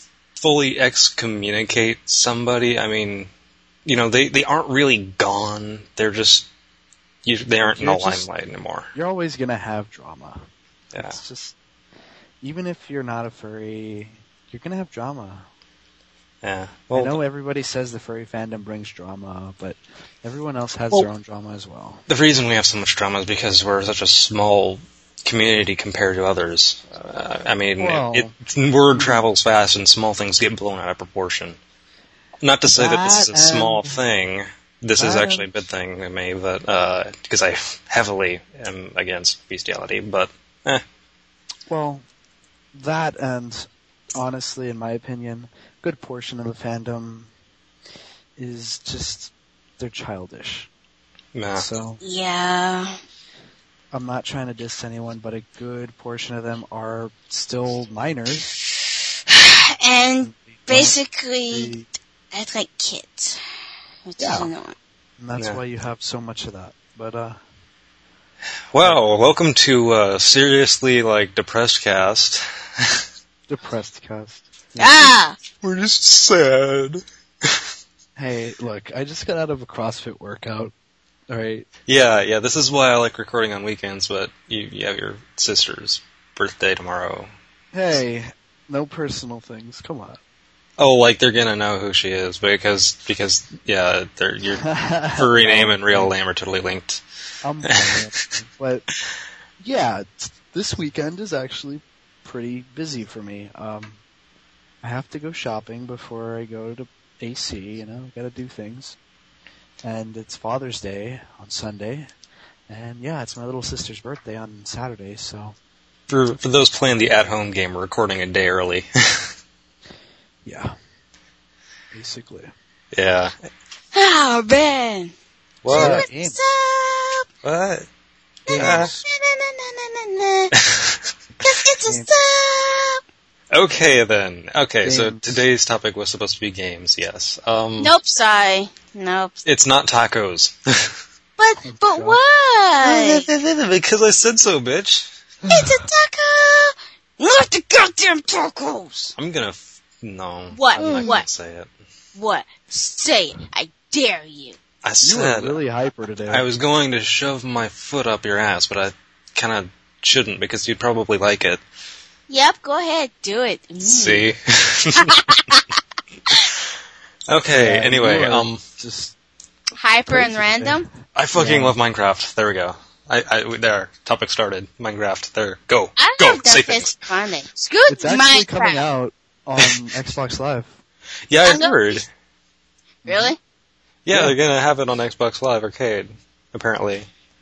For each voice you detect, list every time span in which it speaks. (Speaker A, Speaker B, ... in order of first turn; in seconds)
Speaker A: 0.4-3.3, 3.9-6.5, 7.2-8.9, 16.4-17.2, 22.1-31.6, 32.4-40.8, 51.4-51.7, 68.7-73.0, 75.6-77.6, 81.9-87.3, 90.8-97.0, 97.7-98.2, 116.1-119.3, 122.9-123.3, 125.6-126.1, 127.4-127.9, 128.5-128.9, 130.6-131.0, 133.5-137.9, 139.4-141.0, 142.8-145.1, 149.2-151.7, 154.8-155.6, 156.3-161.6, 163.8-165.3, 167.3-168.6, 171.1-177.1, 181.3-182.1, 184.1-187.1
Speaker B: 7.6-8.3, 8.9-10.4, 10.9-11.6, 12.4-15.5, 16.9-22.0, 27.8-28.3, 29.0-29.2, 32.7-34.0, 35.0-35.5, 41.7-42.1, 42.7-47.3, 48.4-50.7, 51.5-52.0, 53.9-58.5, 60.2-61.0, 61.5-61.9, 64.2-64.5, 65.2-67.4, 73.5-75.2, 78.2-80.7, 81.3-81.7, 87.7-90.2, 94.6-96.1, 97.4-98.9, 99.6-104.0, 104.8-109.0, 109.8-112.1, 112.7-115.5, 120.5-120.7, 121.9-122.5, 125.7-126.4, 128.5-129.1, 134.8-135.4, 141.7-142.2, 145.4-145.8, 150.8-151.2, 155.0-156.4, 167.5-169.1, 170.1-171.8, 177.9-180.7, 183.1-183.4
Speaker C: 52.0-53.0, 59.3-61.7, 62.3-63.4, 64.0-64.8, 74.8-75.4, 123.9-125.1, 125.7-127.3, 128.5-130.5, 131.4-133.0, 137.8-139.4, 141.4-143.3, 145.5-149.2, 150.5-151.2, 152.2-154.6, 162.3-164.3, 165.0-165.6, 169.8-170.9, 176.0-178.8, 181.4-182.0, 183.1-183.4